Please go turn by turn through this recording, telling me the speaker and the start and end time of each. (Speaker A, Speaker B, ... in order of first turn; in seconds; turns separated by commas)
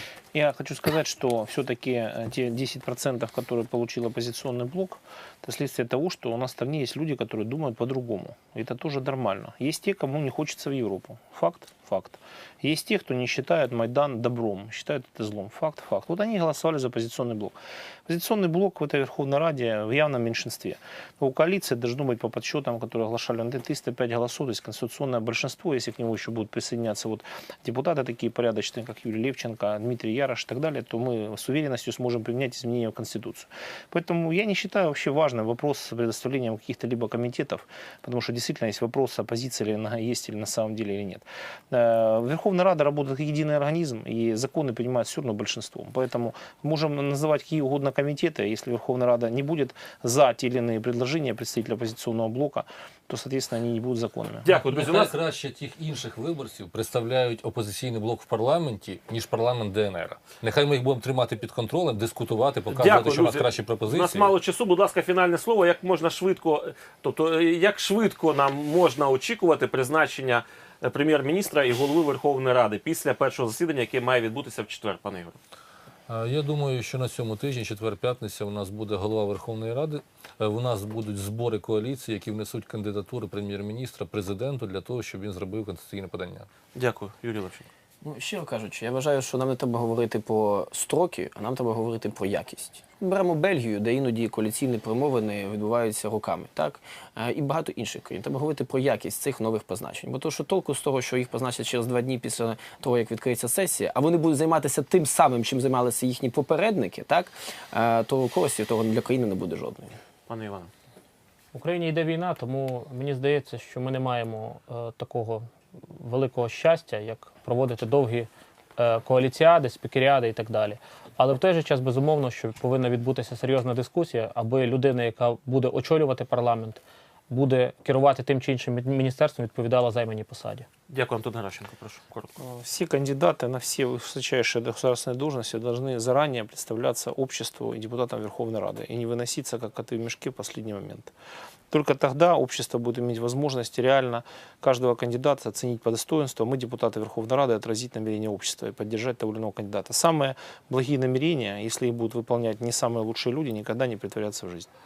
Speaker A: 0.3-17.5, Speaker A: 18.1-54.5, Speaker B: 54.4-55.1, Speaker C: 54.5-64.3, Speaker B: 62.7-75.4, Speaker C: 76.1-86.5, Speaker B: 86.8-87.7, Speaker D: 88.0-110.0, Speaker B: 110.3-110.7, Speaker E: 111.5-130.7, Speaker B: 130.9-132.3, Speaker A: 132.4-141.1, Speaker A: 141.7-154.7